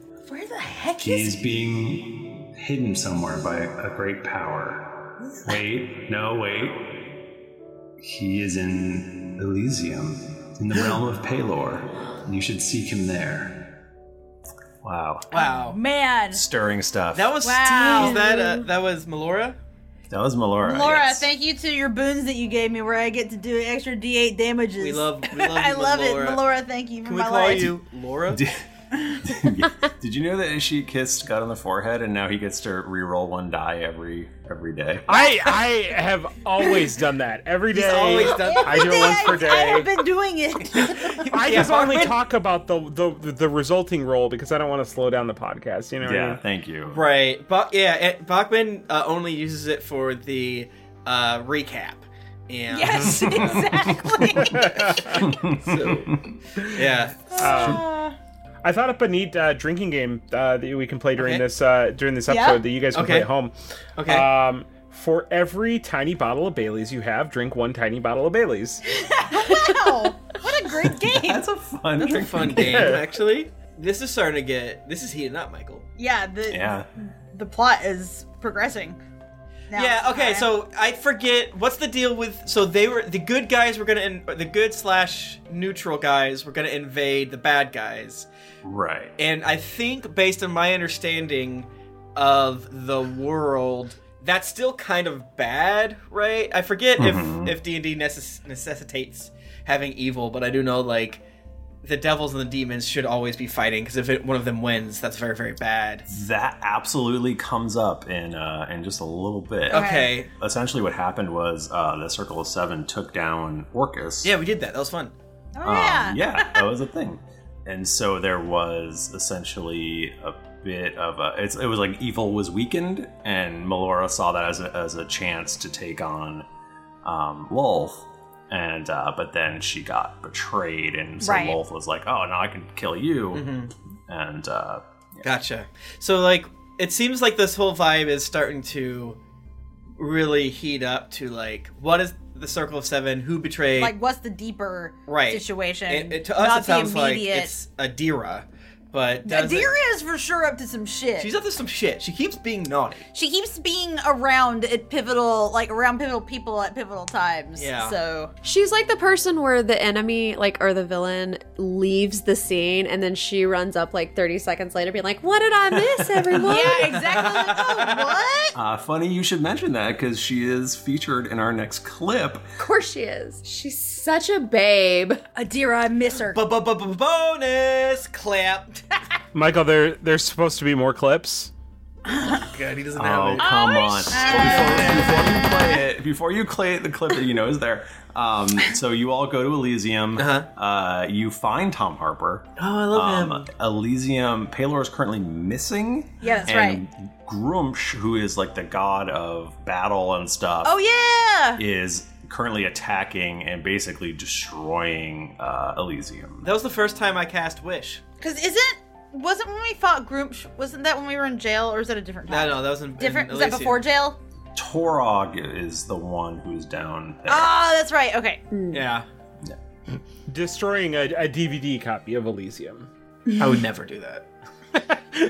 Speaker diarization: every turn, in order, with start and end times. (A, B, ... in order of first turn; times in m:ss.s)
0:00.2-0:01.4 A
0:01.0-0:07.2 B
0:08.0-0:13.8 B
0:14.8-0:15.3 B
0:15.3-0:15.8 C
0:15.3-0:16.4 A
0:16.3-0:17.4 B
0:17.1-0:19.6 C
0:17.4-0:18.2 A
0:18.0-0:18.6 D
0:20.1-0:21.3 B
0:20.6-0:27.7 A
0:24.8-0:26.5 C
0:27.0-0:28.4 C
0:28.3-0:35.1 B
0:35.1-0:39.9 E
0:35.1-0:35.5 A
0:37.7-0:39.4 C
0:37.9-0:41.3 A
0:41.0-0:42.2 C
0:41.3-0:46.4 E
0:46.0-0:47.1 B
0:46.9-0:53.7 C
0:52.7-0:55.1 A
0:53.3-0:53.6 B
0:54.6-0:55.2 E
0:54.7-0:56.1 C
0:55.2-0:56.3 B
0:56.7-0:57.4 C
0:57.3-0:58.2 A
0:57.4-0:57.8 E
0:58.6-1:08.8 E
1:01.2-1:01.4 C
1:02.3-1:02.6 A
1:02.9-1:03.3 C
1:04.0-1:04.3 C
1:09.0-1:11.5 A
1:10.9-1:13.0 B
1:12.0-1:15.9 C
1:12.6-1:13.0 E
1:16.0-1:19.0 A
1:16.5-1:16.9 B
1:19.7-1:20.5 A
1:19.7-1:28.3 C
1:28.6-1:29.2 B
1:29.2-1:41.2 C
1:37.0-1:37.6 B
1:41.8-1:46.1 C
1:46.1-1:54.4 B
1:49.7-1:50.3 C
1:49.7-1:50.2 A
1:54.2-1:55.1 C
1:55.6-1:56.6 A
1:55.6-2:06.5 B
2:07.0-2:15.2 B
2:11.2-2:11.6 A
2:13.3-2:13.7 C
2:15.2-2:19.2 C
2:20.0-2:23.9 C
2:23.8-2:27.5 A
2:25.1-2:29.8 C
2:29.2-2:31.3 A
2:31.2-2:33.0 C
2:33.1-2:38.3 A
2:37.6-2:38.0 C
2:38.4-2:47.0 D
2:46.4-2:48.6 A
2:46.9-2:48.2 C
2:48.6-2:52.5 B
2:52.6-2:55.2 D
2:55.3-2:56.4 A
2:56.3-2:58.8 C
2:59.3-3:01.5 E
3:02.2-3:05.2 C
3:03.0-3:20.8 B
3:03.4-3:05.6 A
3:10.2-3:10.5 C
3:12.6-3:13.5 C
3:16.2-3:16.8 A
3:20.6-3:21.6 A
3:21.6-3:26.5 B
3:26.4-3:28.0 C
3:28.2-3:34.2 A
3:32.3-3:33.8 C
3:34.6-3:37.6 B
3:37.3-3:38.4 A
3:38.7-3:39.1 C
3:40.3-3:42.9 E
3:43.4-3:44.3 C